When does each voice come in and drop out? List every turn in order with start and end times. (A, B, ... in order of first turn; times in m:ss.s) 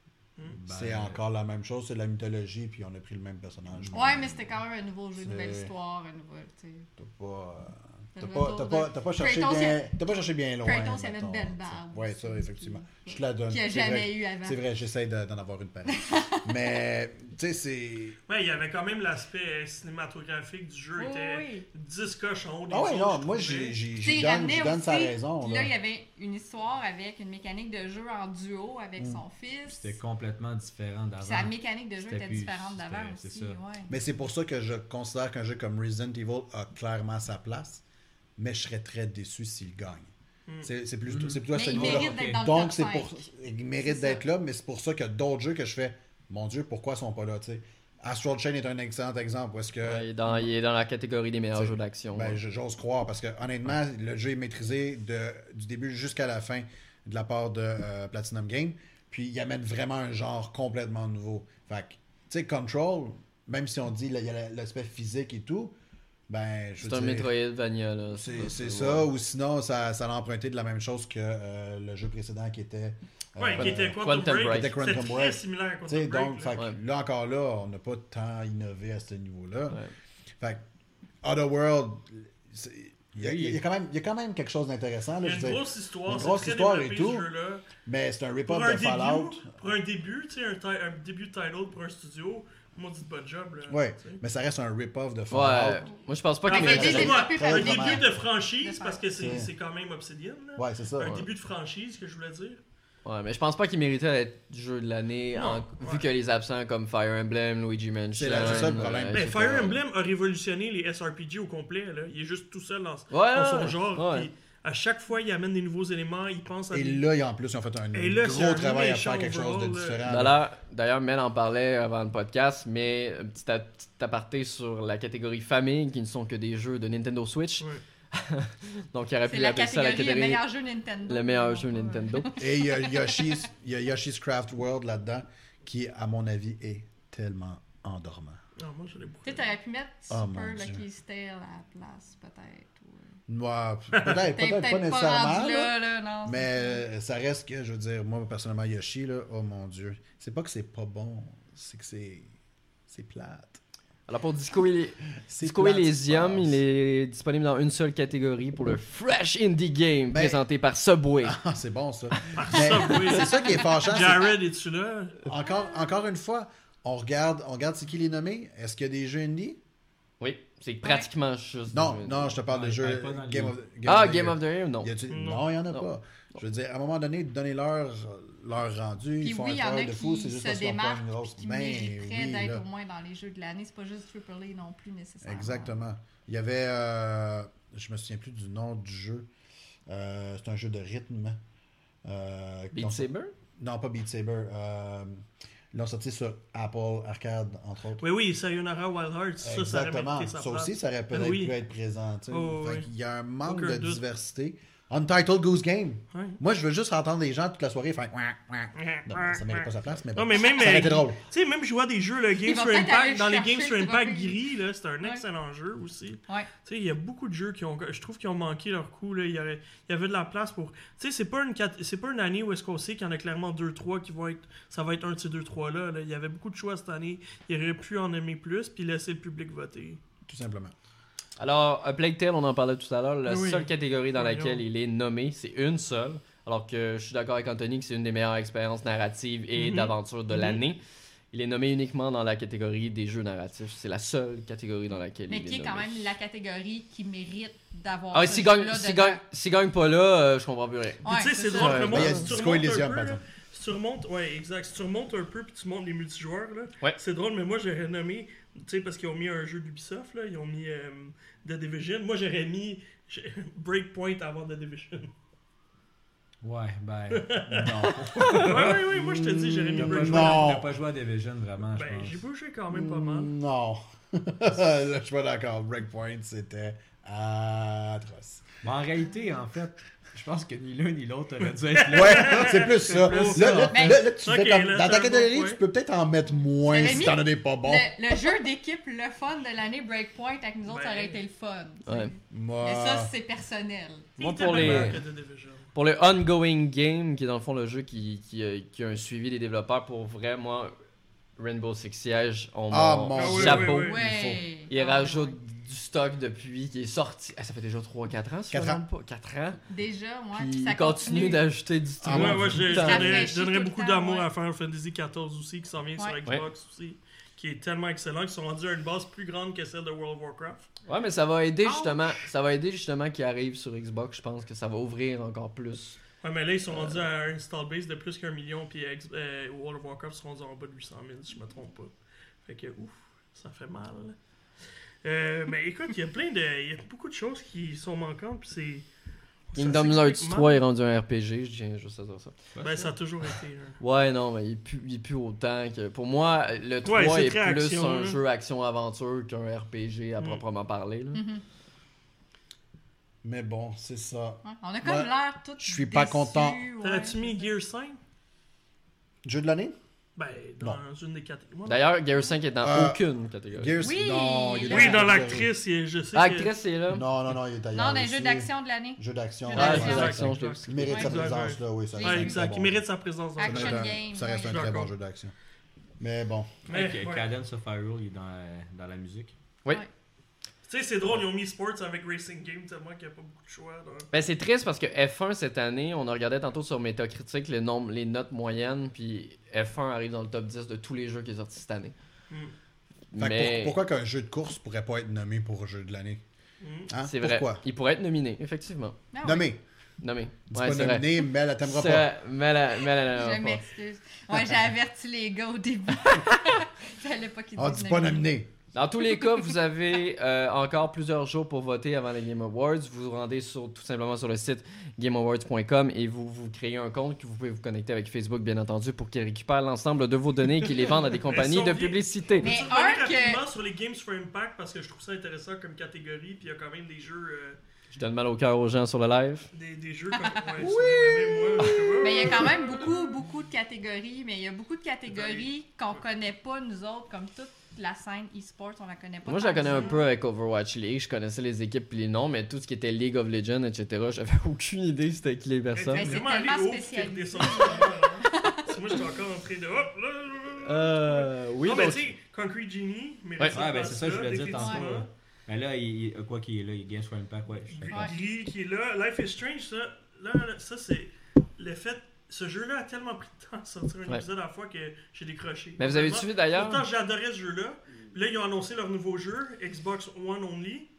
0:00.5-0:01.2 A
0:00.7-0:04.4 B
0:03.8-0:04.2 A
0:03.9-0:06.9 C
0:05.2-0:05.7 B
0:07.0-0:18.2 B
0:08.2-0:09.9 C
0:10.6-0:14.6 C
0:15.9-0:16.5 C
0:18.3-0:23.8 D
0:21.0-0:21.7 C
0:22.7-0:25.7 B
0:24.0-0:30.0 C
0:29.0-0:29.2 B
0:29.7-0:33.6 A
0:31.2-0:33.9 C
0:33.9-0:37.8 B
0:38.4-0:40.1 B
0:40.6-0:50.5 B
0:41.1-0:42.4 A
0:41.5-0:43.1 C
0:43.8-0:44.2 C
0:49.8-0:52.4 E
0:51.6-1:05.8 B
1:06.3-1:07.3 B
1:06.8-1:09.1 E
1:08.1-1:19.8 B
1:13.4-1:16.6 D
1:13.6-1:14.8 E
1:21.2-1:27.3 B
1:23.2-1:23.6 A
1:25.2-1:27.6 D
1:27.9-1:29.5 B
1:28.5-1:34.2 D
1:33.7-1:35.9 B
1:35.3-1:37.2 E
1:36.5-1:42.6 D
1:36.5-1:39.1 C
1:36.5-1:38.1 B
1:39.2-1:39.5 B
1:40.6-1:41.3 B
1:43.0-1:49.8 E
1:45.3-1:46.0 D
1:48.2-1:49.6 B
1:48.4-1:57.0 D
1:53.1-1:54.3 E
1:56.7-2:00.4 B
1:57.9-2:00.0 D
2:00.0-2:10.4 E
2:09.3-2:13.3 C
2:11.1-2:12.3 E
2:12.4-2:18.4 B
2:18.6-2:19.5 D
2:19.2-2:23.0 C
2:20.1-2:20.8 B
2:23.3-2:32.3 B
2:23.9-2:24.2 D
2:24.3-2:26.8 C
2:32.9-2:33.6 B
2:34.1-2:41.4 E
2:35.2-2:36.6 B
2:40.1-2:40.4 B
2:41.2-2:44.4 B
2:42.3-2:45.2 D
2:45.2-2:49.6 B
2:45.4-2:45.8 C
2:50.2-2:52.4 E
2:50.8-2:51.1 C
2:51.7-3:02.6 B
2:52.5-2:53.6 A
2:53.8-2:54.9 E
2:55.1-2:55.5 D
2:59.2-3:05.7 C
3:05.2-3:09.3 B
3:09.9-3:11.4 B
3:12.0-3:18.0 B
3:12.7-3:13.3 E
3:18.0-3:21.6 D
3:19.4-3:31.2 B
3:22.3-3:22.9 D
3:23.4-3:24.0 D
3:26.1-3:26.4 D
3:28.8-3:50.0 D
3:32.4-3:34.4 C
3:50.3-3:50.7 B
3:51.4-4:00.8 E
3:53.3-3:54.6 D
3:59.6-4:00.6 D
4:01.3-4:06.1 E
4:05.3-4:09.2 C
4:08.1-4:12.3 E
4:11.0-4:12.1 C
4:11.1-4:25.1 D
4:11.9-4:13.2 B
4:26.4-4:28.8 A
4:27.1-4:30.6 D
4:27.5-4:30.7 B
4:29.8-4:32.2 A
4:31.8-4:33.3 D
4:32.7-4:38.5 B
4:38.6-4:43.8 A
4:41.8-4:45.6 D
4:41.9-4:48.0 B
4:43.7-4:44.0 C
4:46.6-4:54.1 C
4:50.7-4:51.2 D
4:51.9-4:52.1 E
4:52.3-4:53.1 B
4:54.2-4:55.7 D
4:54.2-4:55.0 E
4:55.7-5:00.7 E
5:01.4-5:03.9 E
5:02.7-5:04.4 B
5:03.1-5:04.0 D
5:03.8-5:05.3 C
5:04.7-5:09.6 E
5:08.5-5:08.8 B
5:09.7-5:11.4 C
5:10.3-5:13.3 E
5:12.0-5:12.6 B
5:12.1-5:20.7 D
5:12.7-5:14.3 C
5:20.9-5:26.0 E
5:21.6-5:22.0 C
5:26.2-5:31.9 D
5:26.7-5:27.0 E
5:32.4-5:34.2 D
5:35.0-5:38.9 D
5:39.5-5:40.6 D
5:39.6-5:42.4 E
5:42.6-5:42.9 A
5:42.6-5:43.8 D
5:43.8-5:51.2 E
5:46.8-5:48.2 D
5:51.1-5:51.4 C
5:53.2-5:56.6 B
5:54.4-5:57.5 C
5:56.8-5:58.0 D
5:59.2-5:59.8 B
6:00.2-6:01.8 D
6:01.7-6:03.7 E
6:02.6-6:05.5 B
6:03.8-6:05.2 C
6:04.7-6:06.5 D
6:06.1-6:07.1 E
6:06.9-6:12.8 B
6:07.7-6:10.3 C
6:09.5-6:14.9 D
6:09.5-6:11.0 E
6:10.9-6:11.2 C
6:11.9-6:12.5 C
6:13.4-6:14.8 C
6:13.4-6:15.3 B
6:16.0-6:16.6 B
6:16.7-6:17.3 D
6:16.7-6:19.4 A
6:20.7-6:24.1 D
6:24.1-6:31.9 E
6:33.1-6:33.8 E
6:33.2-6:36.2 B
6:36.6-6:36.9 D
6:36.9-6:37.6 B
6:37.0-6:39.0 E
6:39.1-6:39.5 C
6:39.2-6:39.6 B
6:40.0-6:43.6 E
6:40.5-6:42.1 B
6:43.1-6:48.2 C
6:47.6-6:48.5 B
6:48.7-7:02.6 E
7:01.2-7:07.6 D
7:02.4-7:03.4 C
7:08.0-7:09.5 E
7:09.5-7:13.0 D
7:10.2-7:10.8 C
7:10.6-7:11.0 E
7:10.7-7:11.1 B
7:11.6-7:12.5 E
7:12.0-7:20.0 C
7:15.1-7:16.0 D
7:19.3-7:26.1 E
7:19.6-7:20.0 D
7:25.7-7:35.1 D
7:25.9-7:28.8 C
7:30.6-7:32.2 E
7:33.5-7:38.1 A
7:34.6-7:34.8 C
7:37.7-7:50.9 D
7:45.8-7:46.8 E